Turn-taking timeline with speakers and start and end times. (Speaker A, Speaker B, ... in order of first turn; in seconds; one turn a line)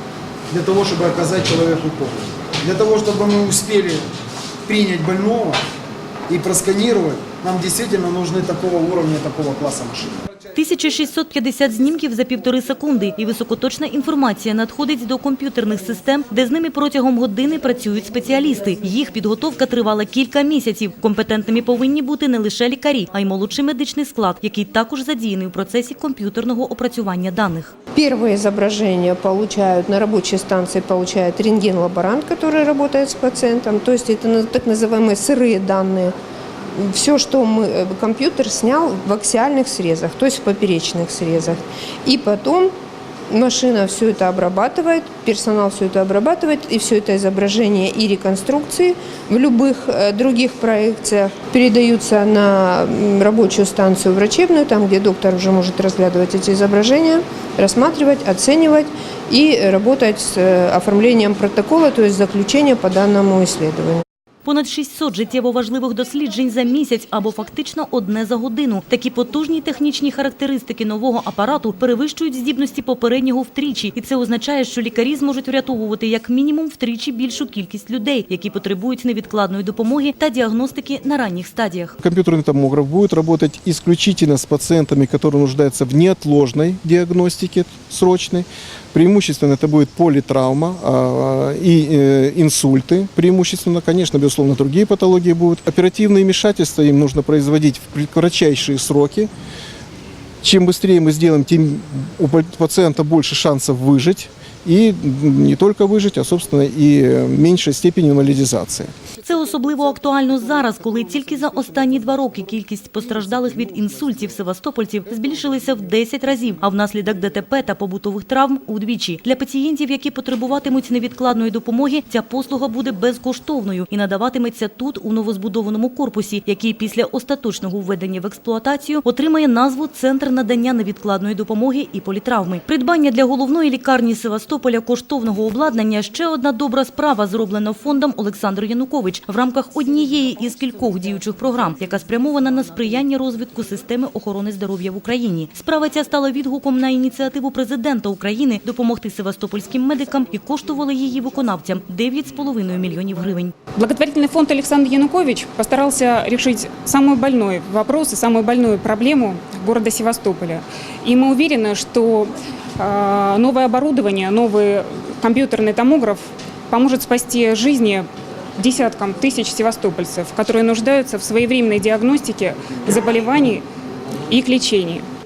Speaker A: 0.5-4.1
Speaker A: 4.7-5.6
Speaker A: 6.3-10.2
Speaker B: 10.5-27.7
Speaker C: 27.9-36.1
Speaker C: 36.8-42.7
Speaker C: 43.3-64.0
Speaker B: 64.4-82.0
Speaker D: 82.0-99.3
Speaker D: 100.4-108.9
Speaker B: 109.2-153.5
Speaker E: 153.8-173.6
Speaker E: 174.3-175.1